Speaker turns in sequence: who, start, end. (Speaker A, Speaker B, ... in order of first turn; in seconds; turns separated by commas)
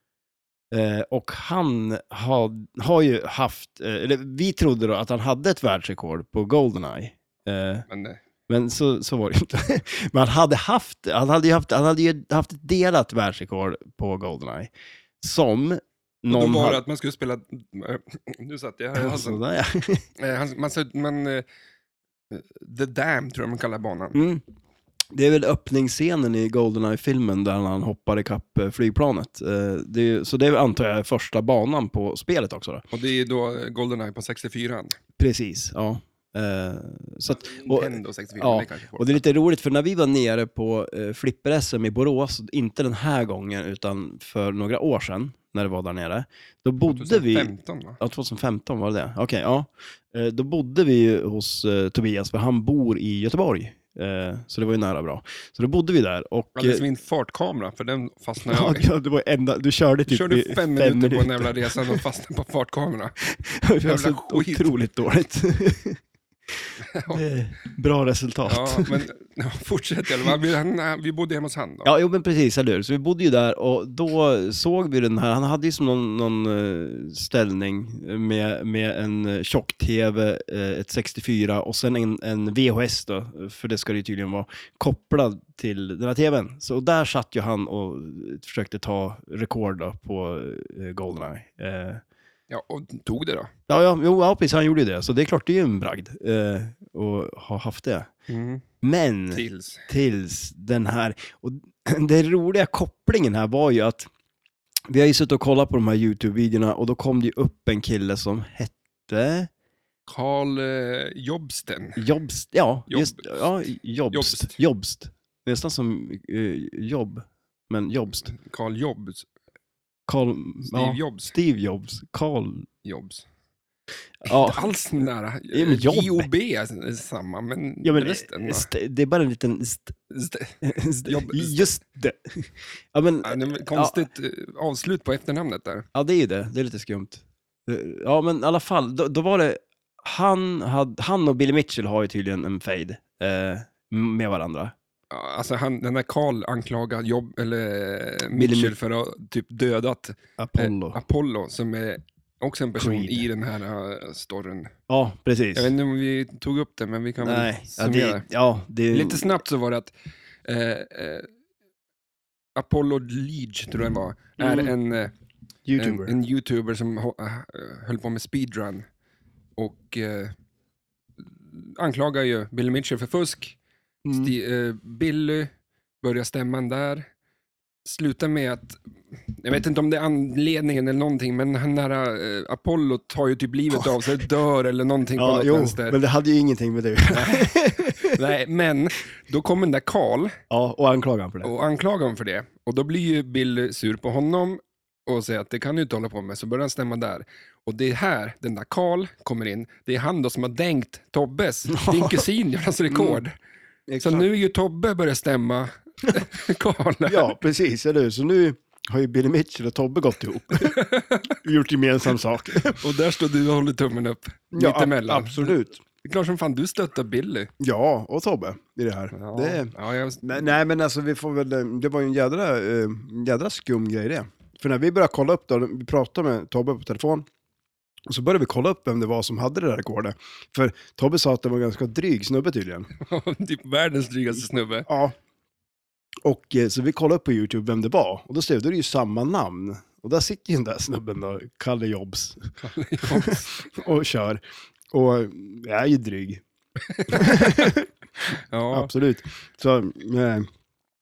Speaker A: 0.7-7.8, Speaker B: 7.9-8.2, Speaker A: 8.5-16.8, Speaker B: 16.3-19.4, Speaker A: 18.9-20.0, Speaker B: 20.2-21.4, Speaker B: 22.3-24.2, Speaker A: 24.1-24.4, Speaker A: 25.1-32.8, Speaker B: 32.9-35.0, Speaker A: 35.2-56.8, Speaker B: 37.4-39.2, Speaker B: 46.9-48.0, Speaker B: 56.5-58.9, Speaker A: 58.5-62.0, Speaker B: 60.1-63.1, Speaker A: 63.2-66.0, Speaker B: 63.8-64.7, Speaker B: 66.8-67.2, Speaker A: 67.1-69.0, Speaker B: 68.5-71.9, Speaker A: 71.8-92.0, Speaker B: 92.5-93.5, Speaker A: 93.7-98.1, Speaker B: 98.3-98.6, Speaker A: 98.8-104.1, Speaker B: 99.3-99.9, Speaker A: 104.9-109.5, Speaker B: 110.1-112.0, Speaker A: 112.0-118.3, Speaker B: 112.9-113.3, Speaker B: 114.1-114.6, Speaker B: 118.2-119.3, Speaker A: 120.1-122.7, Speaker B: 120.7-121.3, Speaker B: 122.8-123.2, Speaker A: 124.2-124.7, Speaker B: 124.3-128.7, Speaker A: 125.5-126.3, Speaker A: 127.8-129.9, Speaker B: 130.1-131.7, Speaker A: 130.6-134.0, Speaker B: 133.2-135.8, Speaker A: 135.9-144.7, Speaker B: 145.1-154.7, Speaker A: 148.3-148.7, Speaker A: 150.4-151.0, Speaker A: 152.8-153.3, Speaker A: 154.9-155.7, Speaker B: 155.5-158.2, Speaker A: 157.2-159.4, Speaker B: 158.9-159.9, Speaker B: 160.4-161.3, Speaker B: 162.6-165.1, Speaker A: 164.4-164.7, Speaker A: 165.7-166.1, Speaker B: 165.8-168.8, Speaker B: 169.6-170.3, Speaker B: 171.5-173.6, Speaker A: 174.0-174.3, Speaker B: 174.1-175.5, Speaker B: 176.0-177.1, Speaker B: 177.8-178.8, Speaker B: 179.3-186.0, Speaker A: 185.2-188.2, Speaker B: 187.1-190.4, Speaker A: 190.5-191.5, Speaker B: 191.4-203.3, Speaker A: 201.7-202.3, Speaker A: 202.9-203.2, Speaker A: 203.9-204.3, Speaker B: 204.0-207.3, Speaker A: 207.1-210.8, Speaker B: 210.6-211.3, Speaker A: 211.4-212.8, Speaker B: 212.8-217.5, Speaker A: 214.5-215.8, Speaker A: 217.6-219.7, Speaker B: 219.1-220.5, Speaker A: 220.2-227.3, Speaker A: 228.1-232.9, Speaker B: 233.0-234.9, Speaker A: 234.9-235.1, Speaker A: 236.2-242.5, Speaker B: 242.6-243.6, Speaker A: 243.0-246.4, Speaker B: 246.9-247.8, Speaker A: 247.1-247.9, Speaker B: 248.3-248.9, Speaker A: 248.7-250.5